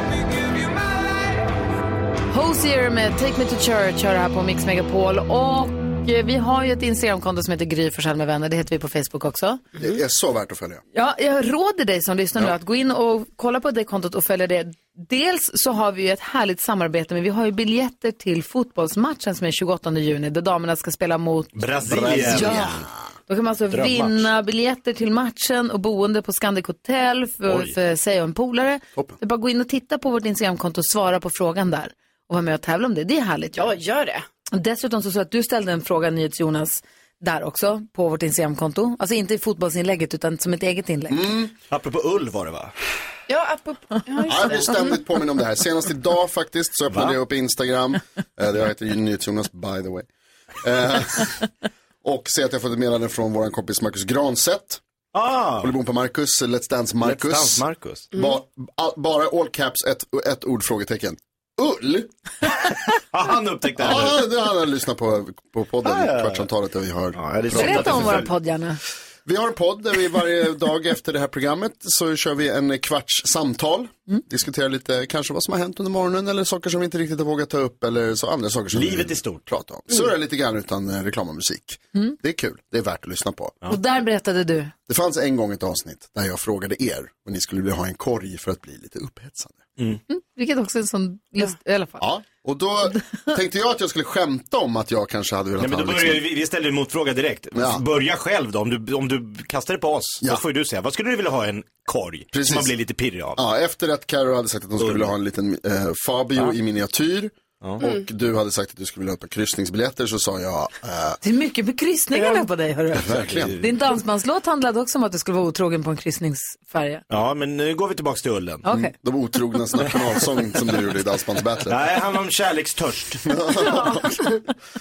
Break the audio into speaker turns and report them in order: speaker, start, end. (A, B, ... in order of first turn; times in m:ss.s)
0:02.3-0:09.6 A
0:09.8-0:10.8 B
0:10.9-0:22.7 A
0:21.6-0:22.8 C
0:21.9-0:22.9 B
0:23.3-0:33.7 A
0:23.7-0:24.3 C
0:27.5-0:27.7 C
0:33.6-0:34.2 D
0:34.5-0:41.2 A
0:41.1-0:41.5 B
0:41.7-0:42.7 C
0:43.3-0:45.0 D
0:44.3-0:50.1 B
0:46.9-0:47.2 C
0:50.6-0:51.4 B
0:52.0-0:54.8 B
0:55.1-0:55.7 C
0:55.6-1:02.1 B
0:57.0-0:58.1 C
0:58.1-0:58.4 D
1:03.1-1:04.2 C
1:03.8-1:08.3 B
1:05.8-1:06.4 C
1:07.1-1:08.3 C
1:07.5-1:08.8 A
1:09.3-1:23.6 B
1:18.7-1:19.4 C
1:23.7-1:24.7 A
1:24.9-1:29.6 B
1:30.1-1:32.0 A
1:32.0-1:36.2 B
1:35.6-1:43.4 C
1:37.5-1:37.8 B
1:42.3-1:42.7 B
1:43.4-1:51.2 B
1:44.8-1:45.1 C
1:47.8-1:48.1 D
1:51.2-1:57.0 A
1:53.0-1:53.6 B
1:53.0-1:53.7 C
1:57.1-1:58.6 C
1:58.6-1:58.9 A
1:58.7-2:01.8 B
2:01.7-2:03.3 C
2:03.3-2:04.4 B